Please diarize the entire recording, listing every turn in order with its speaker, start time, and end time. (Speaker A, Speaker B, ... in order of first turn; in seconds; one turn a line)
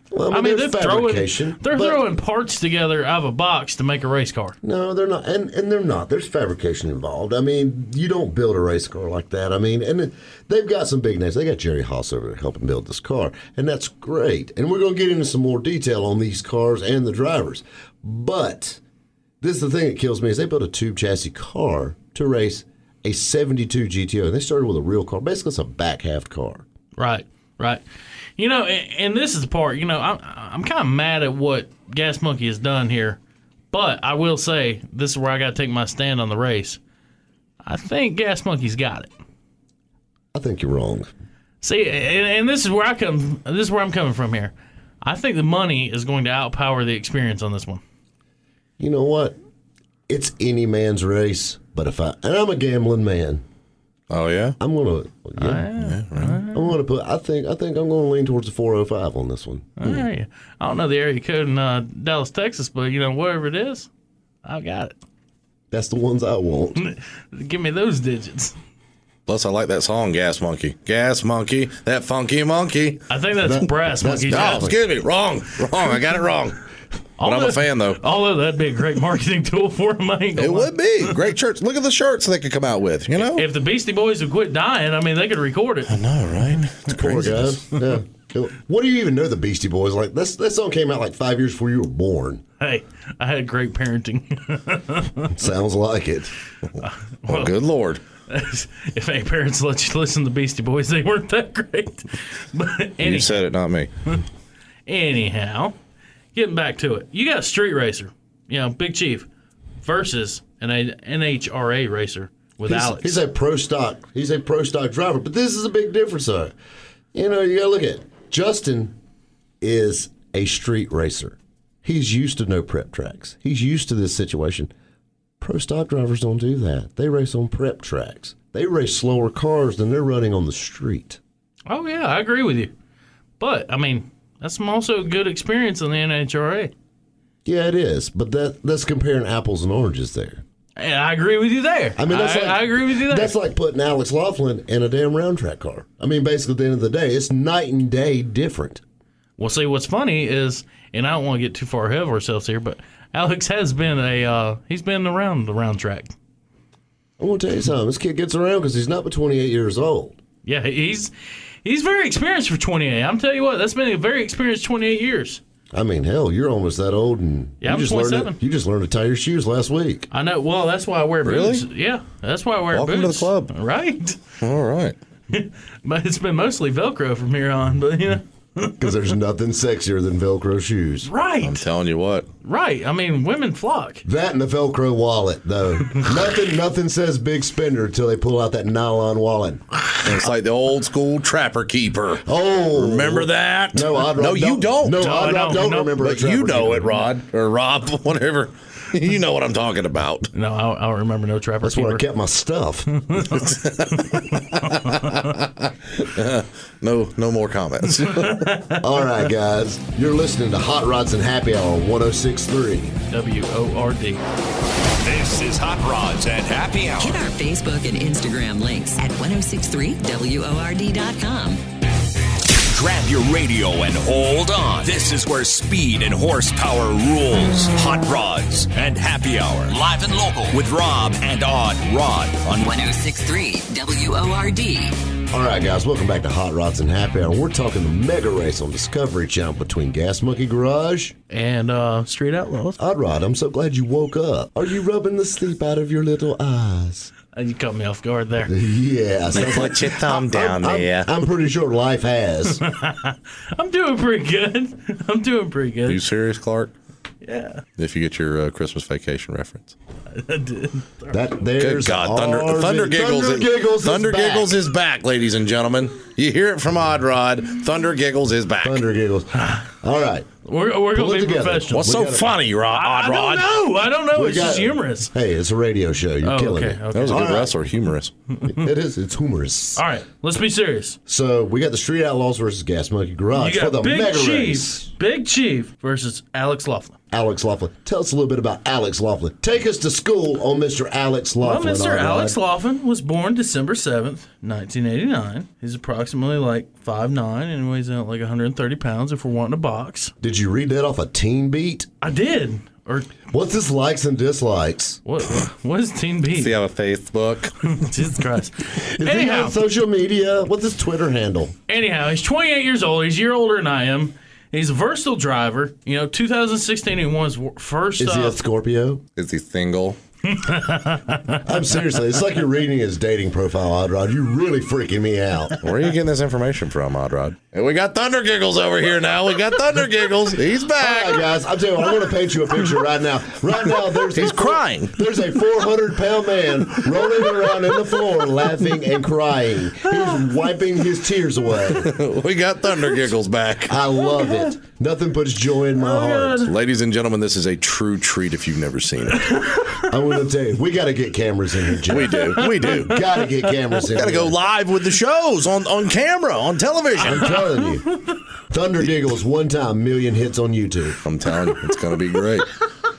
Speaker A: 0.1-2.0
Speaker B: 0.3-4.6
Speaker A: 4.6-18.8
Speaker A: 19.4-26.6
Speaker B: 27.0-27.8
Speaker B: 28.4-33.2
Speaker B: 33.7-36.8
Speaker B: 37.6-39.1
Speaker A: 40.3-41.1
Speaker B: 41.6-47.8
Speaker A: 48.8-49.4
Speaker A: 50.1-53.4
Speaker C: 54.1-54.6
Speaker A: 54.6-55.7
Speaker B: 55.4-56.7
Speaker C: 55.8-56.4
Speaker A: 56.5-59.8
Speaker B: 59.8-63.9
Speaker B: 64.4-64.9
Speaker A: 65.7-66.8
Speaker B: 66.8-68.5
Speaker C: 69.3-73.0
Speaker B: 73.1-74.7
Speaker A: 73.4-74.8
Speaker C: 74.3-76.6
Speaker B: 77.2-80.7
Speaker C: 77.2-78.0
Speaker C: 80.4-83.5
Speaker B: 83.2-86.0
Speaker C: 85.9-87.5
Speaker A: 86.9-92.4
Speaker B: 92.6-95.3
Speaker A: 95.3-96.3
Speaker B: 96.8-97.6
Speaker C: 97.3-98.0
Speaker B: 98.3-103.4
Speaker C: 103.0-103.9
Speaker B: 104.9-105.8
Speaker B: 106.3-109.3
Speaker B: 109.8-113.2
Speaker A: 112.7-116.5
Speaker A: 117.1-119.0
Speaker A: 119.6-124.7
Speaker A: 125.4-131.2
Speaker B: 131.7-132.7
Speaker B: 133.4-136.7
Speaker A: 137.4-140.4
Speaker B: 140.8-143.3
Speaker A: 142.0-148.8
Speaker B: 149.4-156.1
Speaker A: 157.2-160.2
Speaker B: 160.4-161.1
Speaker B: 161.7-165.4
Speaker A: 165.7-170.1
Speaker B: 167.6-168.4
Speaker B: 170.1-174.2
Speaker C: 171.2-171.6
Speaker C: 172.7-173.5
Speaker C: 174.4-175.0
Speaker B: 175.3-178.8
Speaker A: 178.8-181.1
Speaker B: 181.1-181.7
Speaker C: 181.4-182.3
Speaker B: 182.4-184.0
Speaker A: 184.1-190.1
Speaker C: 190.0-200.3
Speaker A: 192.2-197.0
Speaker B: 195.0-196.0
Speaker B: 200.3-202.0
Speaker A: 201.6-202.9
Speaker B: 203.0-205.1
Speaker C: 203.2-208.5
Speaker B: 208.0-208.8
Speaker A: 208.8-212.9
Speaker B: 213.1-214.2
Speaker D: 215.0-217.2
Speaker E: 217.0-221.6
Speaker D: 222.7-232.7
Speaker E: 232.6-235.0
Speaker A: 235.3-241.2
Speaker B: 241.3-242.8
Speaker A: 242.8-247.1
Speaker B: 247.3-248.5
Speaker A: 248.5-252.6
Speaker C: 249.3-251.1
Speaker B: 252.6-256.0
Speaker C: 255.9-256.7
Speaker B: 257.2-257.6
Speaker C: 257.8-259.7
Speaker B: 260.1-261.2
Speaker A: 261.1-264.6
Speaker C: 261.6-268.8
Speaker A: 268.6-270.3
Speaker B: 269.4-269.7
Speaker B: 270.4-271.9
Speaker A: 270.9-272.4
Speaker C: 271.7-273.6
Speaker B: 272.7-275.1
Speaker A: 274.1-277.6
Speaker B: 276.2-277.3
Speaker C: 276.9-278.1
Speaker A: 278.5-279.8
Speaker B: 279.8-281.0
Speaker A: 281.1-284.9
Speaker B: 283.4-287.0
Speaker A: 287.1-292.4
Speaker B: 291.4-300.1
Speaker A: 300.2-301.9
Speaker B: 302.0-303.1
Speaker A: 303.3-305.0
Speaker B: 305.1-306.5
Speaker C: 306.4-307.8
Speaker B: 307.8-309.6
Speaker A: 308.8-311.6
Speaker B: 311.7-318.4
Speaker A: 318.0-319.0
Speaker C: 319.2-320.0
Speaker B: 320.3-321.4
Speaker A: 321.4-325.6
Speaker C: 325.6-331.2
Speaker A: 330.8-341.9
Speaker C: 334.1-335.0
Speaker C: 341.8-343.8
Speaker A: 343.7-346.5
Speaker B: 344.1-344.5
Speaker B: 345.8-346.5
Speaker C: 346.4-349.4
Speaker B: 349.3-349.8
Speaker A: 349.8-354.4
Speaker C: 351.9-353.1
Speaker B: 352.4-352.7
Speaker C: 353.9-357.4
Speaker A: 357.0-358.0
Speaker A: 358.5-361.0
Speaker C: 361.0-362.5